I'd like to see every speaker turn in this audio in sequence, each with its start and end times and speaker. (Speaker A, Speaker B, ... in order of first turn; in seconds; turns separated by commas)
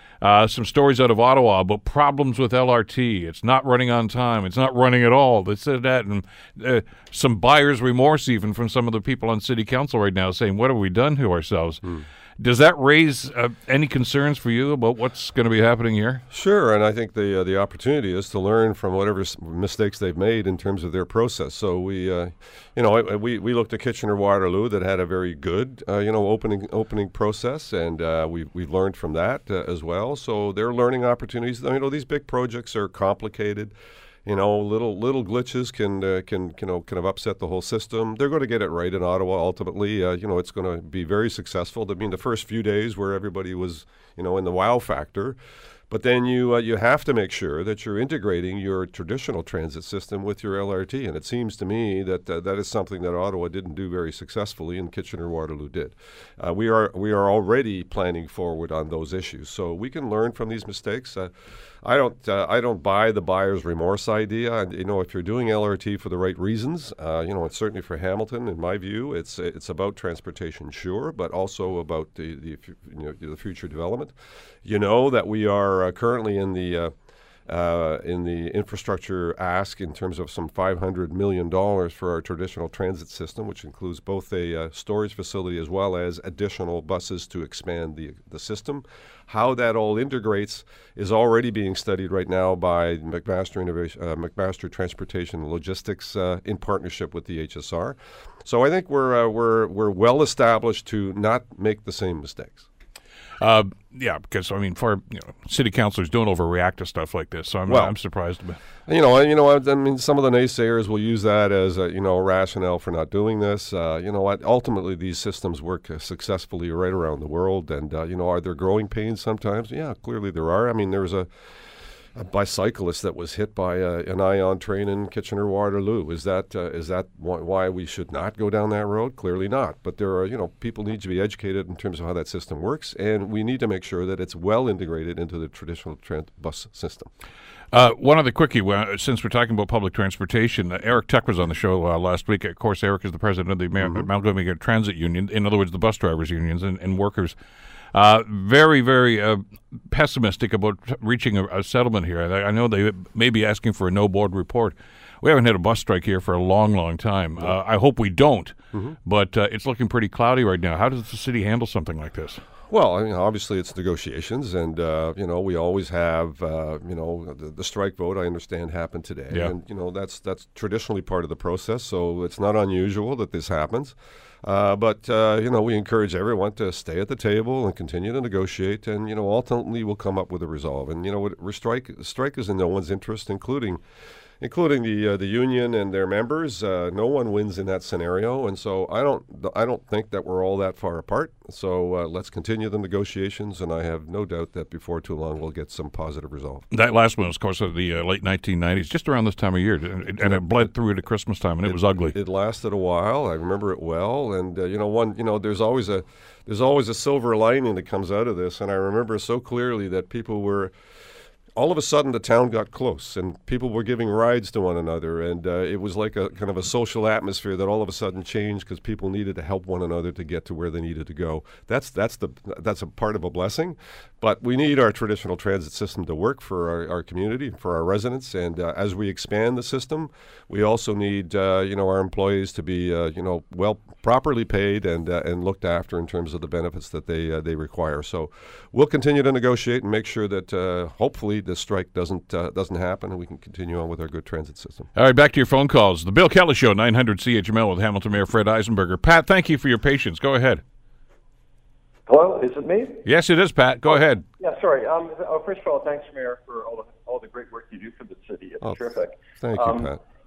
Speaker A: 0.2-11.8, Speaker A: 12.4-16.2, Speaker B: 16.3-33.7, Speaker B: 34.2-45.4, Speaker B: 45.9-61.3, Speaker B: 61.8-74.1, Speaker B: 74.6-76.9, Speaker B: 77.5-102.7, Speaker A: 103.4-108.6, Speaker B: 107.7-107.9, Speaker B: 108.9-121.3, Speaker B: 122.2-137.1, Speaker A: 137.7-147.3, Speaker B: 143.8-144.1, Speaker A: 147.9-162.4, Speaker B: 162.7-183.8, Speaker B: 184.4-196.6, Speaker A: 196.7-202.1, Speaker B: 201.6-210.7, Speaker B: 211.5-244.9, Speaker A: 244.9-250.6, Speaker C: 252.1-253.0, Speaker A: 253.0-254.2, Speaker C: 253.9-259.9, Speaker B: 259.4-260.0